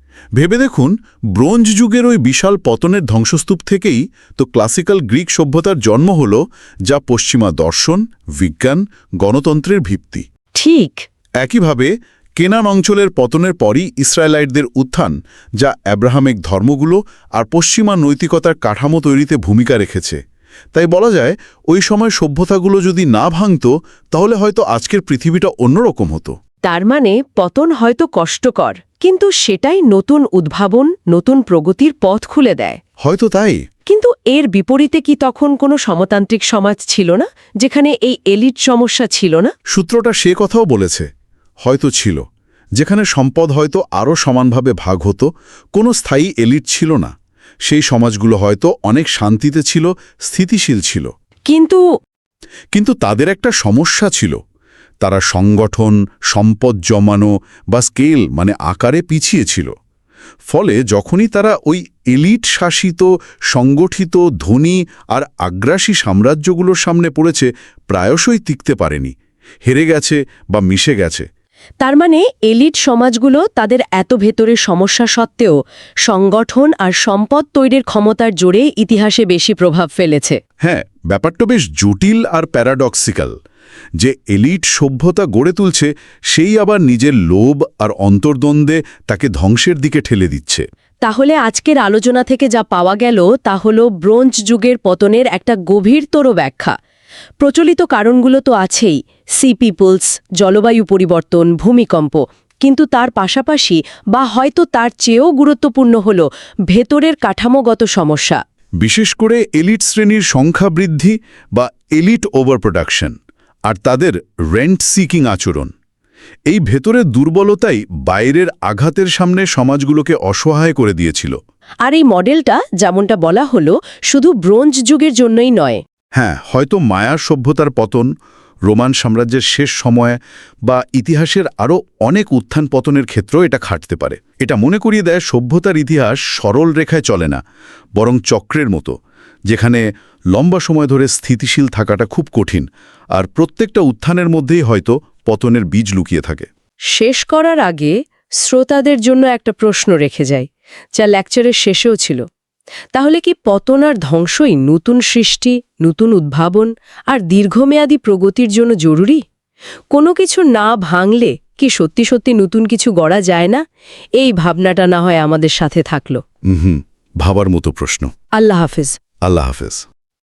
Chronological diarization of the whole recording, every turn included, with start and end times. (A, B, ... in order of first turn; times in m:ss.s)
0:00.4-0:10.2 A
0:10.6-0:11.0 B
0:11.4-0:20.2 A
0:20.7-0:26.3 A
0:26.6-0:32.8 B
0:33.0-0:33.6 A
0:33.9-0:39.5 B
0:39.7-0:41.1 A
0:41.6-0:42.2 A
0:42.8-0:47.1 A
0:47.6-0:51.1 A
0:51.5-0:51.8 B
0:52.7-0:54.4 A
0:55.0-0:59.7 A
1:00.5-1:09.1 A
1:09.6-1:11.3 A
1:11.8-1:20.4 B
1:20.6-1:23.3 A
1:24.0-1:30.6 A
1:31.0-1:36.7 B
1:37.4-1:48.4 B
1:48.8-1:53.1 A
1:53.7-1:55.7 A
1:56.5-2:01.4 A
2:01.8-2:05.8 B
2:06.2-2:08.1 A
2:08.7-2:17.4 A
2:18.0-2:18.9 A
2:19.5-2:19.8 A
2:20.3-2:26.5 A
2:26.9-2:32.2 B
2:32.9-2:39.2 B
2:39.9-2:43.6 B
2:44.2-2:46.2 B
2:46.5-2:48.1 A
2:48.4-2:49.0 B
2:49.2-2:49.8 A